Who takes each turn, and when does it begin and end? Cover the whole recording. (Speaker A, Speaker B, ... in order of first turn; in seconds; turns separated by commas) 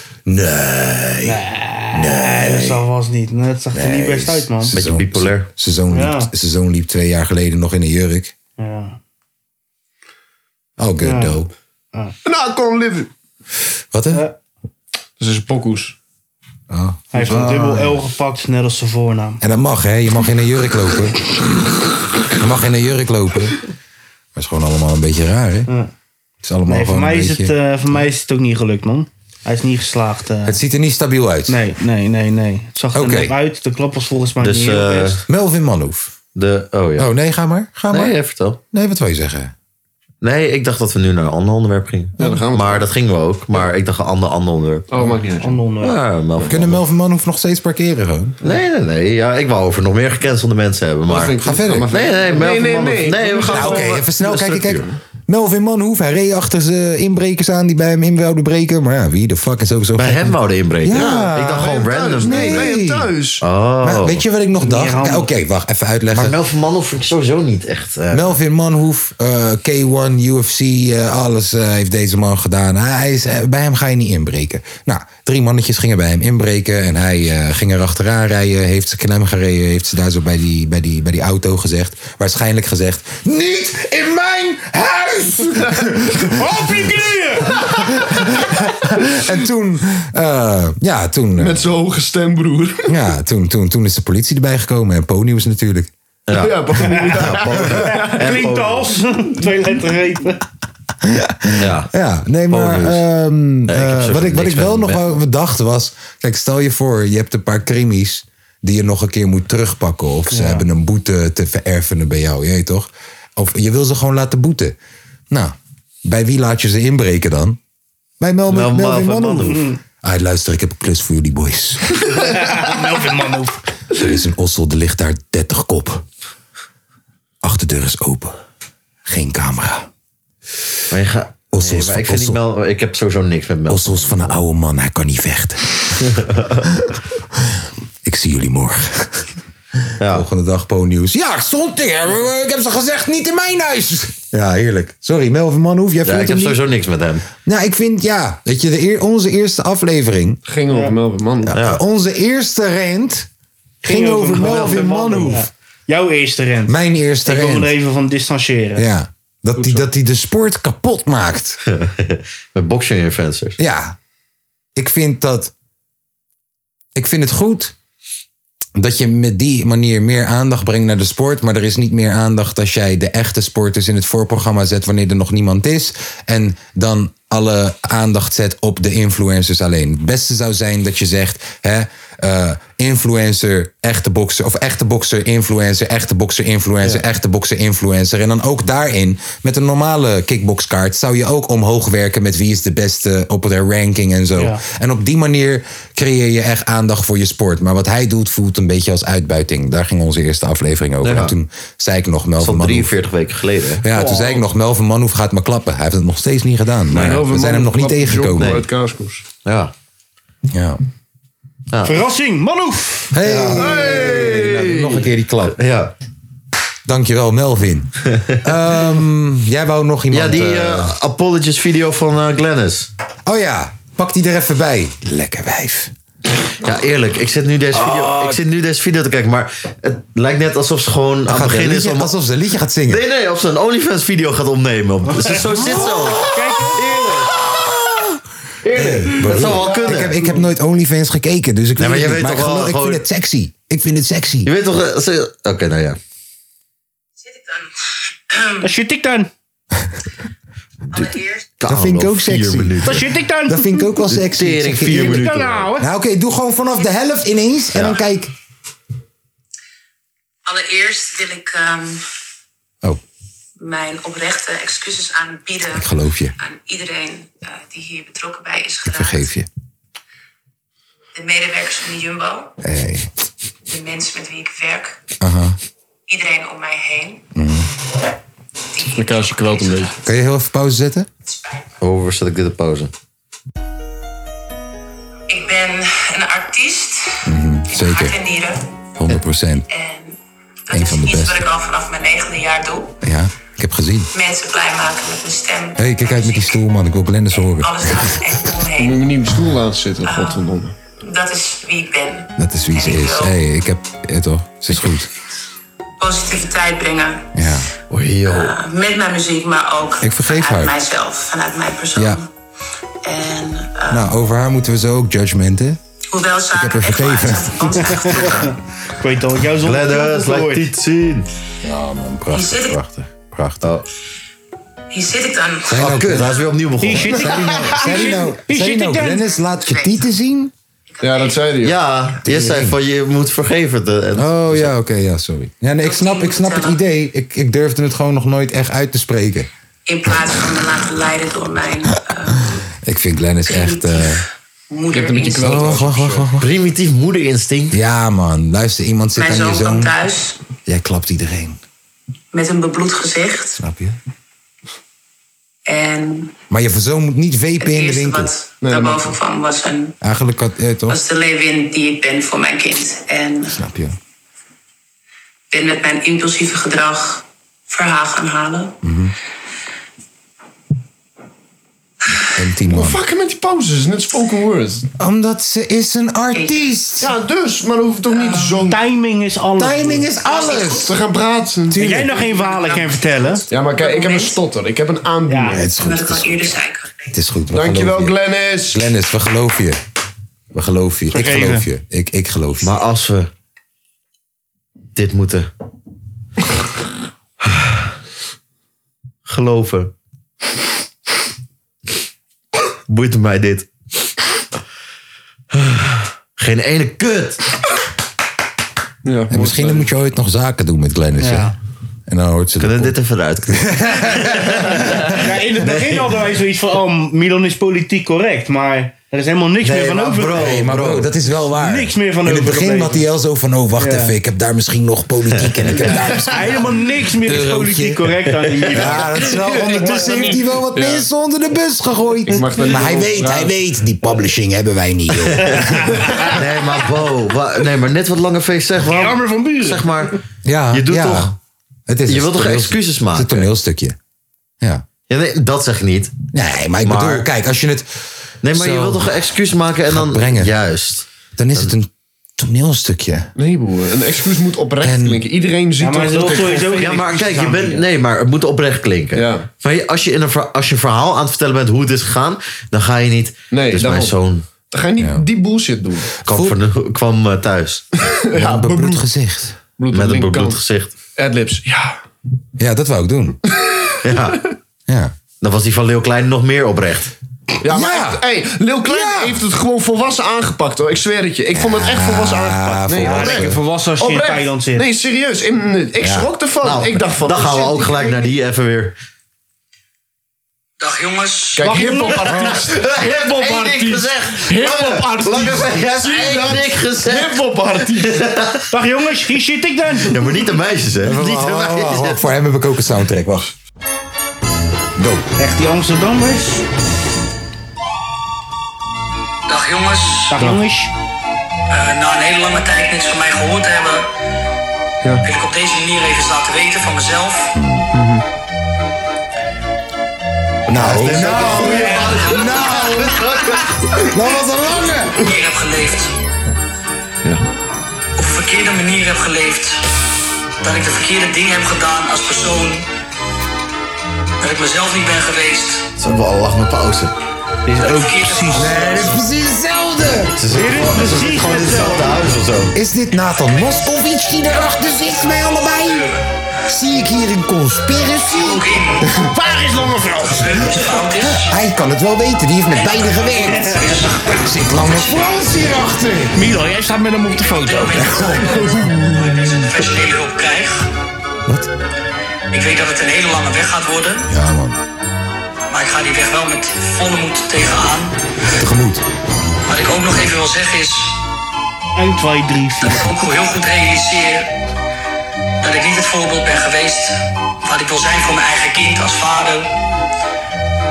Speaker A: 0.3-1.4, Speaker B: 1.2-4.8, Speaker A: 1.9-2.8, Speaker A: 3.7-8.3, Speaker C: 4.7-5.5, Speaker B: 5.9-6.3, Speaker B: 8.6-9.0, Speaker A: 10.8-11.5, Speaker B: 11.0-11.3, Speaker D: 12.2-13.1, Speaker A: 13.9-14.2, Speaker D: 15.2-16.0, Speaker A: 16.7-18.0, Speaker B: 17.1-19.4, Speaker A: 19.4-21.4, Speaker A: 22.3-23.6, Speaker A: 24.4-25.7, Speaker A: 26.4-27.6, Speaker B: 26.7-30.6, Speaker A: 30.4-31.6, Speaker B: 31.5-35.2, Speaker A: 32.9-33.3, Speaker C: 34.4-35.2, Speaker A: 35.3-36.1, Speaker C: 36.4-37.1, Speaker A: 37.0-38.2, Speaker C: 37.9-38.6, Speaker A: 38.7-39.5, Speaker C: 40.2-45.1, Speaker D: 42.2-42.9, Speaker D: 44.9-45.6, Speaker B: 45.4-46.0, Speaker C: 45.8-46.8, Speaker A: 46.5-48.4, Speaker C: 48.4-54.9, Speaker D: 51.1-54.0, Speaker A: 51.4-51.9, Speaker A: 53.5-63.1, Speaker C: 60.0-62.7, Speaker D: 60.9-63.4, Speaker C: 63.4-64.2, Speaker A: 63.8-66.3, Speaker B: 64.6-65.3, Speaker C: 66.1-68.2, Speaker A: 68.1-86.9, Speaker B: 86.5-87.2, Speaker D: 87.4-88.1, Speaker A: 87.6-91.7, Speaker D: 91.4-92.9, Speaker A: 92.9-95.9, Speaker C: 96.3-99.0, Speaker D: 96.3-98.1, Speaker B: 97.9-100.4, Speaker A: 101.0-114.8, Speaker C: 101.6-101.9, Speaker C: 102.5-103.0, Speaker C: 103.7-105.0, Speaker B: 110.3-110.7, Speaker A: 115.3-117.6, Speaker A: 118.2-122.0, Speaker C: 118.5-119.6, Speaker B: 119.5-119.8, Speaker B: 122.2-123.6, Speaker A: 123.9-126.0, Speaker A: 127.4-128.4, Speaker A: 129.1-129.9, Speaker C: 130.9-134.4, Speaker A: 131.5-132.4, Speaker A: 133.7-136.1, Speaker C: 136.0-136.6, Speaker A: 136.8-139.3, Speaker C: 140.0-140.3, Speaker A: 140.0-146.6, Speaker C: 146.1-147.3, Speaker A: 147.4-150.4, Speaker D: 150.5-151.6, Speaker A: 151.5-153.3, Speaker C: 151.5-151.8, Speaker B: 153.8-158.9, Speaker A: 153.8-155.5, Speaker A: 156.7-157.7, Speaker A: 158.8-161.6, Speaker D: 159.6-159.8, Speaker C: 161.7-163.6, Speaker A: 163.6-164.0, Speaker A: 164.8-165.5, Speaker A: 166.9-167.7, Speaker A: 168.8-202.9, Speaker B: 194.4-194.6, Speaker C: 201.0-201.3, Speaker C: 202.4-203.9, Speaker A: 203.8-208.6, Speaker D: 206.9-209.2, Speaker C: 208.4-208.7, Speaker C: 209.4-209.7, Speaker A: 210.5-210.8, Speaker C: 211.7-212.0, Speaker B: 211.8-213.2, Speaker A: 213.1-215.6, Speaker C: 213.2-215.9, Speaker D: 213.6-214.5, Speaker A: 216.9-221.0, Speaker C: 220.1-222.9, Speaker A: 223.3-225.9, Speaker C: 226.6-232.1, Speaker A: 227.7-228.4, Speaker A: 231.2-233.0, Speaker C: 232.9-237.6, Speaker B: 235.1-236.8, Speaker A: 235.6-236.3, Speaker C: 238.6-240.3, Speaker A: 238.7-244.5, Speaker C: 241.8-243.0, Speaker C: 244.4-246.0, Speaker E: 247.2-247.7, Speaker E: 248.3-248.6, Speaker B: 248.6-249.3, Speaker C: 250.9-253.1, Speaker E: 250.9-251.5, Speaker A: 251.7-258.3, Speaker B: 252.8-253.9, Speaker C: 254.1-255.7, Speaker B: 254.9-255.9, Speaker C: 257.7-258.0, Speaker E: 260.5-262.1, Speaker E: 263.6-265.9, Speaker A: 265.7-266.4, Speaker E: 266.4-269.3, Speaker A: 268.9-269.5, Speaker E: 271.1-272.5, Speaker A: 272.6-273.1, Speaker E: 273.7-275.0, Speaker A: 275.2-275.6, Speaker E: 276.1-277.2, Speaker A: 277.4-277.7, Speaker E: 278.8-280.0, Speaker D: 278.9-279.9, Speaker A: 280.1-281.1, Speaker E: 281.3-281.7, Speaker C: 281.8-282.9, Speaker E: 285.3-288.7, Speaker A: 287.2-288.2, Speaker A: 289.0-289.7, Speaker E: 289.7-293.0, Speaker A: 290.7-291.4, Speaker A: 293.0-294.1, Speaker E: 294.1-296.6, Speaker A: 295.8-298.4, Speaker E: 297.5-299.1, Speaker D: 298.8-300.8, Speaker E: 300.0-300.5, Speaker E: 301.0-303.4, Speaker A: 302.4-305.1, Speaker E: 306.0-307.3, Speaker A: 307.3-307.7, Speaker C: 307.9-308.6, Speaker E: 308.3-312.3, Speaker A: 310.0-310.7, Speaker A: 312.0-312.2, Speaker E: 313.0-314.1, Speaker A: 313.9-315.8, Speaker E: 316.1-318.5, Speaker A: 316.5-318.2, Speaker B: 318.0-320.6, Speaker C: 319.6-321.3, Speaker A: 321.6-323.8, Speaker E: 322.3-322.8, Speaker E: 324.9-326.2, Speaker A: 325.7-326.4, Speaker C: 325.8-327.4, Speaker B: 326.8-329.3, Speaker A: 327.1-330.5, Speaker E: 329.1-330.1, Speaker E: 330.9-332.2, Speaker D: 331.0-331.8, Speaker C: 331.6-334.7, Speaker A: 332.2-332.8, Speaker A: 334.2-339.5, Speaker E: 335.8-336.8, Speaker E: 339.9-342.6, Speaker A: 342.8-344.2, Speaker E: 343.5-345.8, Speaker D: 344.9-346.3, Speaker A: 345.4-346.5, Speaker C: 346.4-347.8, Speaker A: 347.7-349.9, Speaker E: 349.1-350.4, Speaker A: 350.7-351.6, Speaker E: 352.3-353.6, Speaker A: 353.6-354.0, Speaker E: 355.7-356.3, Speaker A: 356.5-358.3, Speaker E: 357.6-359.9, Speaker D: 358.6-359.1, Speaker A: 360.0-361.0, Speaker E: 360.9-363.6, Speaker A: 363.5-364.0, Speaker E: 365.5-368.7, Speaker A: 368.8-369.1, Speaker A: 372.4-373.0, Speaker D: 372.7-374.9, Speaker A: 375.0-377.1, Speaker E: 376.3-376.8, Speaker D: 377.0-378.8, Speaker E: 378.1-378.7, Speaker B: 378.6-380.1, Speaker A: 379.6-380.9, Speaker E: 380.2-381.0, Speaker D: 380.6-382.2, Speaker A: 381.7-382.2, Speaker B: 381.8-383.4, Speaker E: 382.2-384.4, Speaker D: 383.5-385.7, Speaker B: 385.3-385.6, Speaker A: 385.5-386.5, Speaker E: 385.7-387.1, Speaker A: 387.1-388.2, Speaker D: 387.5-388.9, Speaker A: 388.7-389.8, Speaker A: 390.5-392.8, Speaker B: 391.1-391.7, Speaker C: 392.6-393.3, Speaker C: 394.9-395.5, Speaker C: 397.4-397.8, Speaker C: 399.3-399.9, Speaker C: 402.9-403.7, Speaker C: 405.5-407.4, Speaker D: 409.1-409.9, Speaker A: 409.3-411.5, Speaker B: 411.2-411.5, Speaker A: 412.1-412.9, Speaker C: 412.6-416.2, Speaker A: 413.5-415.2, Speaker B: 415.1-420.5, Speaker C: 419.6-421.1, Speaker A: 420.3-426.6, Speaker B: 421.6-423.1, Speaker B: 423.8-424.1, Speaker B: 425.8-429.4, Speaker A: 427.2-436.1, Speaker D: 429.2-431.1, Speaker D: 432.3-433.5, Speaker C: 436.3-440.2, Speaker B: 438.8-440.0, Speaker A: 440.4-441.3, Speaker C: 440.7-441.4, Speaker A: 441.9-444.0, Speaker C: 442.1-443.5, Speaker C: 445.1-446.2, Speaker A: 446.3-447.9, Speaker C: 446.8-447.2, Speaker C: 448.4-451.7, Speaker A: 448.5-449.2, Speaker A: 449.9-450.5, Speaker A: 451.4-453.3, Speaker D: 453.4-456.9, Speaker A: 454.8-455.2, Speaker B: 455.8-457.9, Speaker C: 456.7-464.4, Speaker D: 459.1-459.5, Speaker D: 463.5-464.1, Speaker D: 464.7-466.1, Speaker A: 465.0-465.2, Speaker A: 466.2-466.6, Speaker C: 466.3-467.9, Speaker D: 468.1-469.1, Speaker A: 468.4-469.6, Speaker D: 469.8-470.6, Speaker C: 469.9-470.9, Speaker D: 471.2-472.0, Speaker A: 472.6-473.4, Speaker D: 473.5-473.9, Speaker C: 474.0-474.5, Speaker A: 474.9-475.1, Speaker C: 475.4-477.1, Speaker D: 477.6-488.3, Speaker A: 477.7-478.2, Speaker A: 478.9-479.4, Speaker A: 481.5-483.6, Speaker B: 483.0-484.9, Speaker A: 486.0-486.3, Speaker C: 486.6-488.9, Speaker F: 490.8-491.8, Speaker D: 491.6-498.3, Speaker B: 491.6-492.3, Speaker A: 492.3-492.6, Speaker C: 492.6-497.4, Speaker C: 498.0-498.6, Speaker B: 498.7-500.2, Speaker C: 500.0-502.2, Speaker A: 501.0-503.5, Speaker A: 505.0-505.3, Speaker B: 505.4-506.6, Speaker F: 509.5-510.4, Speaker B: 510.3-510.9, Speaker F: 511.7-514.1, Speaker F: 515.2-517.5, Speaker A: 517.5-517.9, Speaker D: 517.9-518.2, Speaker A: 520.7-523.3, Speaker C: 520.7-523.8, Speaker A: 524.0-525.2, Speaker F: 525.2-526.1, Speaker F: 528.2-529.8, Speaker F: 530.6-532.9, Speaker F: 534.4-535.9, Speaker C: 536.0-537.1, Speaker B: 537.7-538.8, Speaker F: 537.8-539.2, Speaker A: 538.5-540.4, Speaker C: 540.4-542.7, Speaker B: 540.5-542.2, Speaker A: 542.7-546.1, Speaker A: 546.7-549.3, Speaker F: 548.4-549.1, Speaker B: 549.2-550.7, Speaker F: 550.4-551.5, Speaker A: 551.3-556.4, Speaker F: 552.7-555.3, Speaker B: 553.6-554.1, Speaker B: 556.3-558.5, Speaker F: 557.3-560.9, Speaker A: 558.0-559.0, Speaker F: 562.5-564.3, Speaker A: 564.3-564.8, Speaker F: 565.7-568.2, Speaker A: 568.5-569.0, Speaker F: 569.7-571.2, Speaker B: 572.0-573.1, Speaker F: 572.8-574.5, Speaker F: 575.6-579.7